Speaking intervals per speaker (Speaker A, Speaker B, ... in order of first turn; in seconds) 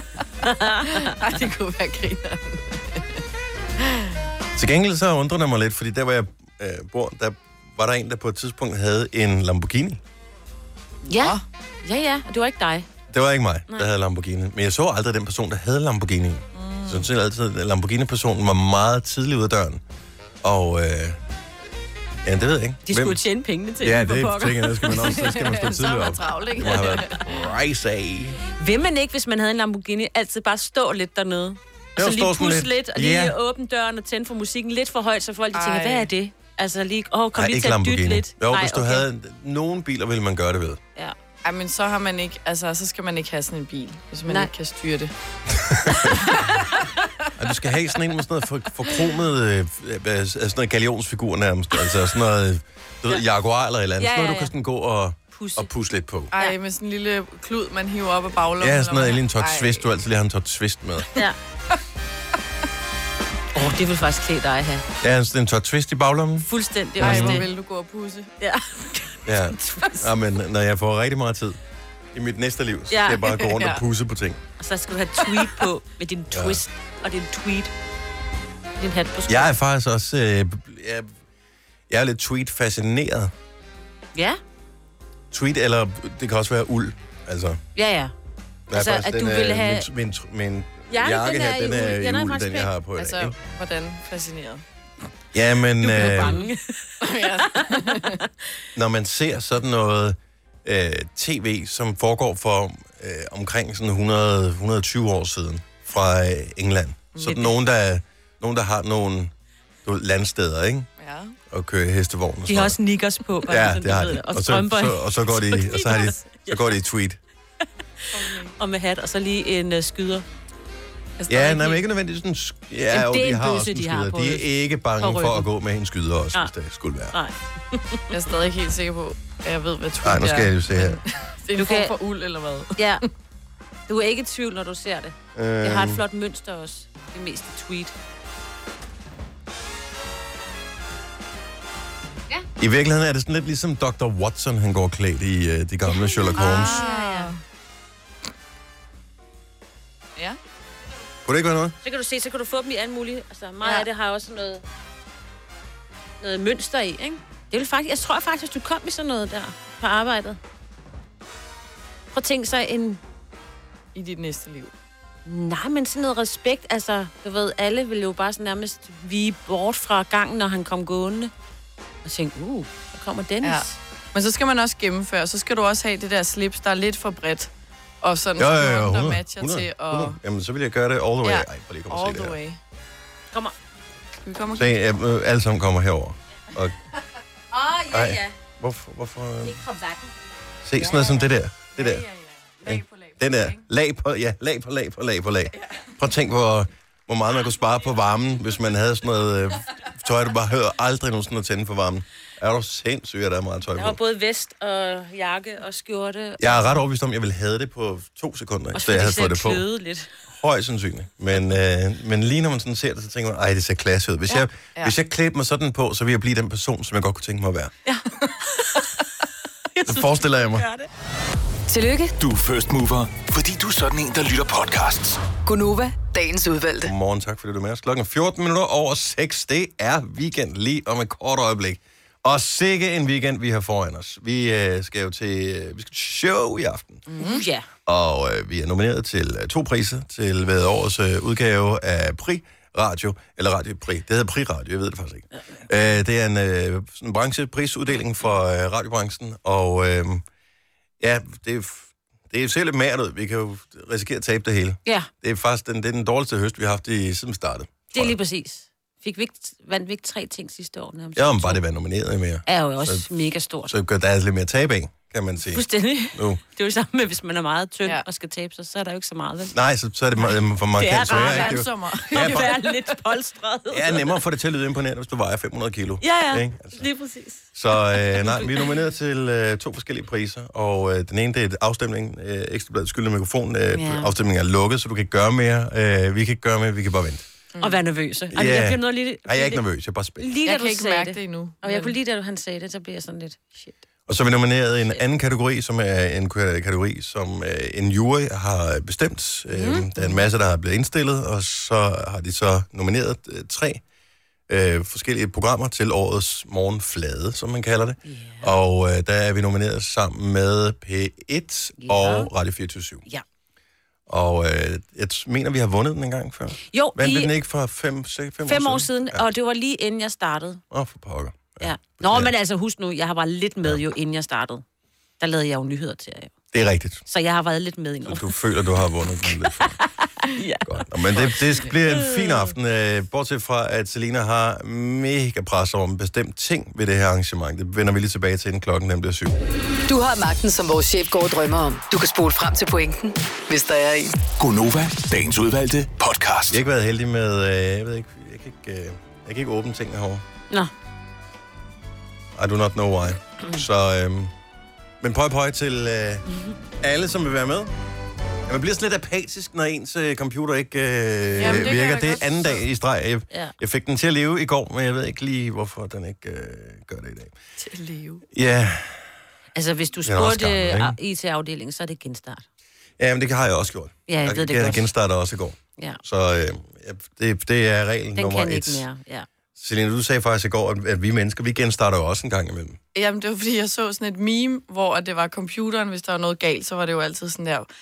Speaker A: 0.4-1.2, 11.1-12.9, 22.9-25.6, 26.7-27.1, 28.6-39.0, 54.0-54.5, 55.3-55.7, 63.6-64.8, 66.4-67.5, 68.4-70.1, 72.9-73.4, 74.6-77.7, 78.8-79.5, 84.1-84.4, 87.8-88.1, 88.7-89.9, 90.9-92.7, 95.8-98.2, 112.5-116.8, 118.2-120.2, 121.4-121.8, 122.9-124.5, 125.0-125.5, 127.1-128.1, 131.6-131.9, 132.8-133.0, 133.9-137.9, 145.9-147.3, 151.8-154.6, 156.2-160.4, 162.1-163.0, 165.2-171.3, 172.0-173.8, 187.5-188.3, 189.5-190.0, 190.8-191.2, 203.8-206.8, 208.7-210.1, 217.8-218.9, 219.7-220.9, 237.2-237.7, 257.9-261.6, 262.4-263.7, 265.5-269.5, 270.8-271.6, 272.1-274.2, 276.0-278.7, 283.7-284.1, 287.6-289.6, 290.2-293.8, 299.5-300.2, 308.0-308.5, 311.8-312.3, 316.6-317.3, 318.4-320.6, 321.6-324.6, 325.2-326.3, 327.1-328.4, 329.2-332.5, 369.5-372.4, 374.1-374.9, 378.2-379.3
Speaker B: 0.9-3.2, 3.8-4.1, 11.1-11.4, 16.5-17.1, 25.1-27.2, 35.5-36.1, 41.4-45.1, 56.3-59.9, 67.0-68.3, 73.4-73.8, 93.0-94.6, 96.0-96.3, 97.0-98.2, 107.1-107.5, 111.0-111.4, 118.1-118.5, 121.2-121.6, 128.1-133.0, 146.3-147.4, 163.9-164.7, 173.4-177.5, 178.0-180.2, 181.2-182.6, 184.2-184.7, 191.7-193.6, 237.1-237.4, 271.1-272.8, 287.5-287.8, 290.4-291.9, 361.4-362.6, 367.6-368.2, 382.9-387.7
Speaker C: 4.5-10.0, 13.1-19.8, 20.4-21.2, 22.2-23.2, 23.8-28.4, 32.0-33.3, 37.3-40.8, 45.5-46.2, 47.4-56.3, 58.6-61.2, 65.0-66.5, 67.0-67.4, 69.2-71.6, 72.1-74.4, 76.3-76.6, 79.3-81.1, 81.9-83.3, 85.3-87.6, 88.7-93.3, 95.3-96.4, 98.7-109.3, 109.8-110.9, 111.5-112.8, 113.5-117.2, 121.3-127.2, 130.0-131.0, 135.3-136.0, 142.6-146.8, 151.2-151.7, 178.4-182.4, 184.5-186.7, 187.9-189.6, 190.6-192.0, 192.6-204.0, 206.4-209.6, 210.3-217.7, 219.8-220.7, 226.8-237.0, 237.8-250.2, 251.0-258.2, 261.1-263.1, 263.7-266.4, 269.5-272.5, 273.7-276.8, 277.5-287.2, 288.3-290.3, 294.1-303.8, 304.5-313.0, 314.1-319.2, 320.7-322.3, 326.5-327.0, 328.1-329.8, 330.6-339.4, 346.5-350.2, 352.3-354.3, 355.0-356.2, 356.8-357.7, 358.5-367.3, 368.3-369.1, 370.0-370.9, 373.0-378.8, 379.6-382.8
Speaker D: 221.7-222.1, 225.4-226.9, 339.9-344.1
Speaker E: 222.2-225.2, 344.4-346.6